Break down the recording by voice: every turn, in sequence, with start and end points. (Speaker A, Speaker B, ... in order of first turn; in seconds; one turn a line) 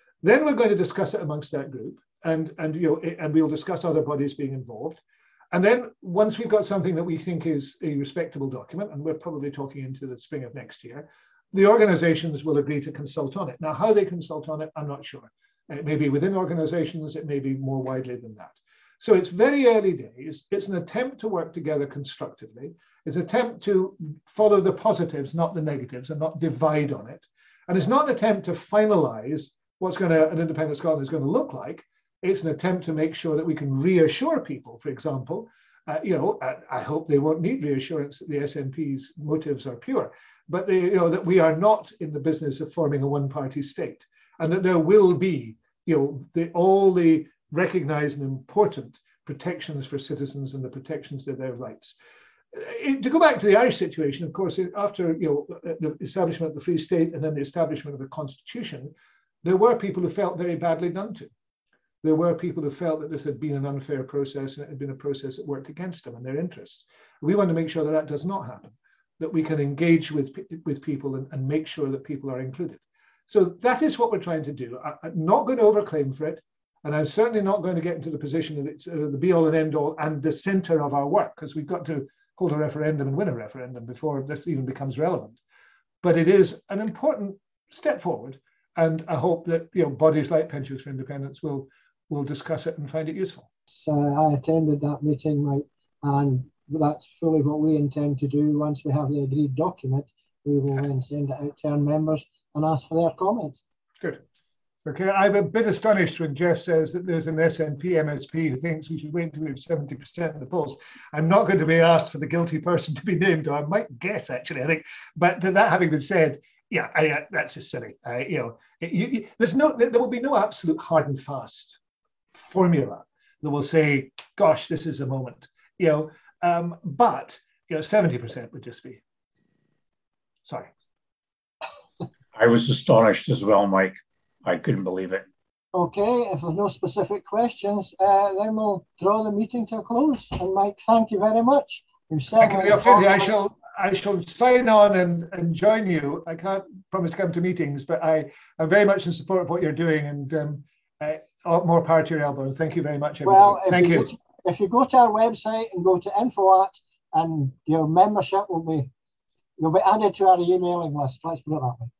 Speaker A: 0.2-52.0
Speaker A: 52.5-61.3
Speaker A: 62.0-85.4
Speaker A: 86.0-93.5
Speaker B: 93.7-103.6
Speaker A: 104.8-121.8
Speaker A: 122.3-129.0
Speaker A: 130.5-130.7
Speaker C: 132.3-135.3
Speaker B: 135.7-143.3
Speaker A: 142.4-154.1
Speaker B: 153.2-158.9
Speaker B: 159.6-161.9